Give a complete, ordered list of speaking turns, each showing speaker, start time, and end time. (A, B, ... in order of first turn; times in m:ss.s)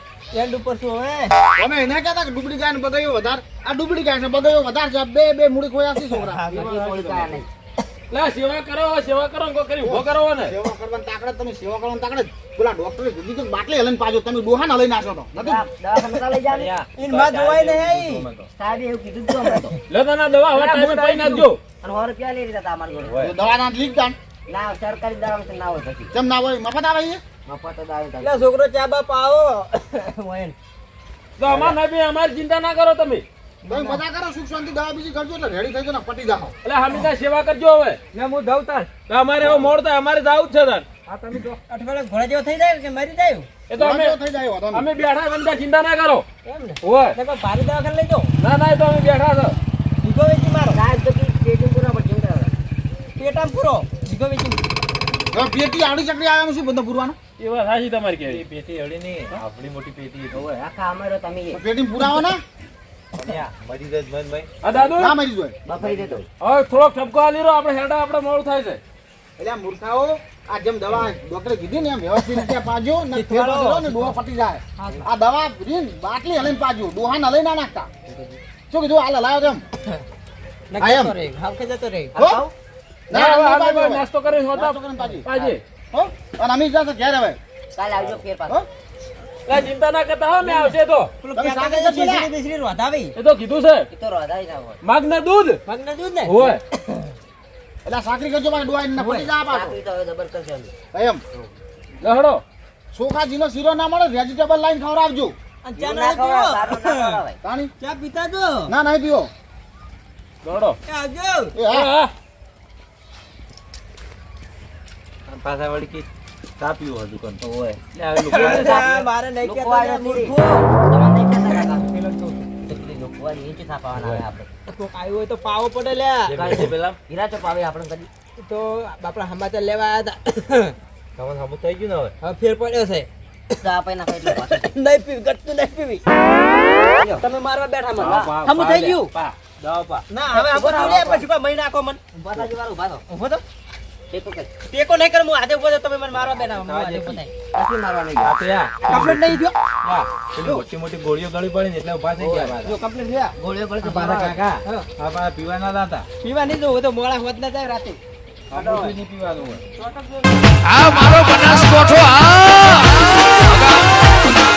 0:00.3-0:01.3 A
0:01.6-0:06.5 B
0:06.4-0:07.5 C
0:06.6-0:07.1 D
0:08.1-0:10.5 E
0:09.8-0:15.6 B
0:15.3-0:16.7 C
0:16.4-0:18.5 D
0:17.0-0:18.2 A
0:18.5-0:19.8 C
0:19.9-0:21.6 E
0:20.5-0:21.5 A
0:21.8-0:23.3 C
0:23.0-0:23.3 D
0:23.2-0:24.2 B
0:24.5-0:26.1 C
0:26.1-0:27.2 B
0:27.4-0:28.4 C
0:28.2-0:30.5 A
0:31.4-0:33.2 E
0:31.4-0:31.8 C
0:33.6-0:34.0 A
0:33.7-0:36.5 B
0:36.6-0:38.0 E
0:38.1-0:38.9 A
0:39.1-0:40.9 E
0:41.1-0:43.5 A
0:43.7-0:44.2 E
0:43.8-0:44.9 B
0:44.7-0:46.2 E
0:46.4-0:48.3 A
0:46.8-0:47.2 E
0:48.4-0:49.6 E
0:50.0-0:50.8 A
0:50.7-0:52.5 C
0:53.2-0:54.6 A
0:55.3-0:57.2 B
0:57.4-0:58.4 E
0:58.2-1:00.4 D
1:00.3-1:01.6 C
1:01.5-1:02.4 B
1:03.1-1:04.5 D
1:04.6-1:05.2 E
1:04.9-1:05.6 B
1:05.6-1:06.3 C
1:05.8-1:06.2 D
1:06.4-1:08.8 E
1:09.4-1:17.9 B
1:13.1-1:14.2 A
1:14.8-1:15.0 A
1:18.7-1:19.6 B
1:20.7-1:22.2 A
1:20.8-1:21.1 B
1:22.1-1:22.5 C
1:22.2-1:22.4 B
1:23.1-1:27.4 B
1:23.1-1:25.6 E
1:27.7-1:28.6 C
1:29.5-1:31.1 E
1:30.4-1:33.1 A
1:31.3-1:32.3 B
1:33.2-1:33.9 E
1:33.9-1:34.8 C
1:34.8-1:35.6 E
1:35.6-1:36.6 A
1:36.2-1:36.6 E
1:37.8-1:39.8 B
1:39.0-1:39.3 A
1:39.4-1:40.7 C
1:40.9-1:41.2 B
1:42.0-1:42.4 E
1:42.9-1:45.3 B
1:45.6-1:47.2 A
1:45.8-1:47.4 C
1:47.4-1:47.7 B
1:47.8-1:48.7 A
1:48.7-1:49.3 B
1:50.4-1:50.8 E
1:50.9-1:51.5 A
1:51.5-1:51.9 B
1:51.7-1:52.1 E
1:55.3-1:56.1 D
1:56.6-1:59.0 D
1:57.4-2:01.9 C
1:58.2-2:00.7 A
2:01.5-2:02.5 A
2:02.6-2:04.5 C
2:04.0-2:04.2 D
2:04.7-2:06.4 A
2:06.3-2:07.0 D
2:06.3-2:08.1 C
2:08.4-2:10.7 A
2:11.2-2:12.1 D
2:12.2-2:13.1 A
2:13.5-2:14.7 C
2:14.2-2:16.0 A
2:17.0-2:17.2 C
2:17.2-2:19.1 A
2:17.9-2:20.1 D
2:20.1-2:22.0 A
2:20.3-2:21.2 C
2:22.1-2:23.0 C
2:23.1-2:23.4 A
2:24.1-2:24.5 C
2:24.7-2:27.3 A
2:26.2-2:27.2 D
2:27.5-2:28.4 C
2:28.2-2:32.7 D
2:28.9-2:29.5 A
2:30.4-2:30.6 A
2:32.2-2:32.6 C
2:32.6-2:34.9 A
2:33.4-2:34.4 C
2:34.1-2:36.0 D
2:36.2-2:38.0 A
2:38.5-2:39.6 D
2:38.5-2:38.9 A
2:39.8-2:40.3 A
2:40.8-2:41.8 A